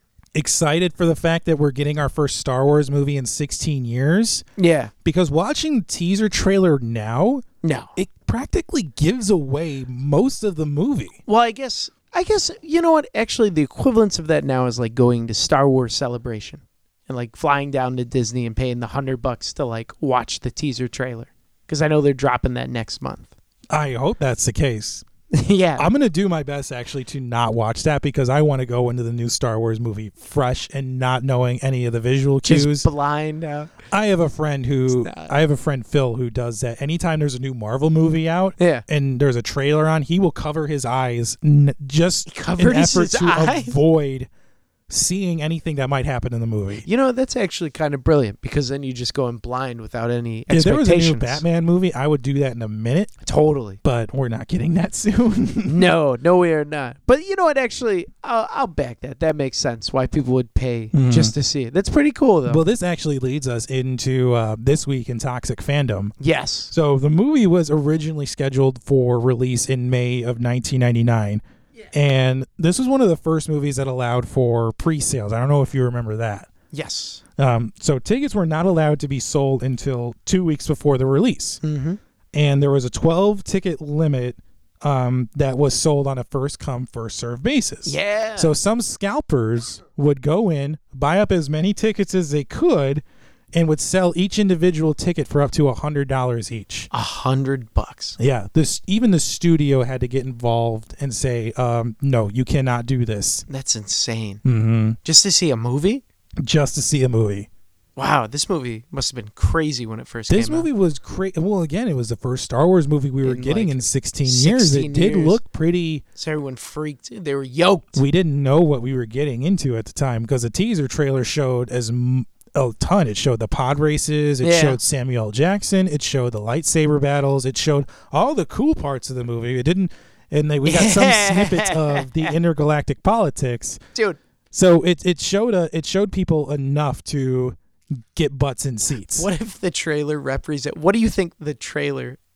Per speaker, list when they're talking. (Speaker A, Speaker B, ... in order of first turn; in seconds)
Speaker A: 0.3-4.5, 5.0-11.2, 23.7-25.1, 25.8-32.9, 33.9-44.3, 44.9-46.9, 50.5-53.1, 53.8-55.9, 60.9-61.3, 62.5-66.2, 66.7-71.4, 71.9-76.5, 77.4-81.6, 82.3-93.0, 93.5-96.9, 98.2-103.5, 104.5-105.0, 106.4-107.5, 110.3-116.0, 118.0-133.8, 134.5-137.6, 138.1-139.3
Speaker B: 4.6-4.9, 7.6-7.9, 11.3-23.3, 25.3-25.9, 32.4-33.7, 34.9-35.3, 38.6-38.9, 42.3-43.8, 46.9-51.4, 53.2-53.8, 55.7-62.6, 66.2-66.7, 76.7-77.2, 81.6-82.0, 87.9-88.5, 96.9-98.2, 103.5-104.4, 105.0-106.0, 108.0-110.7, 113.2-115.4, 116.2-118.0, 124.4-124.8, 130.7-132.4, 139.1-142.2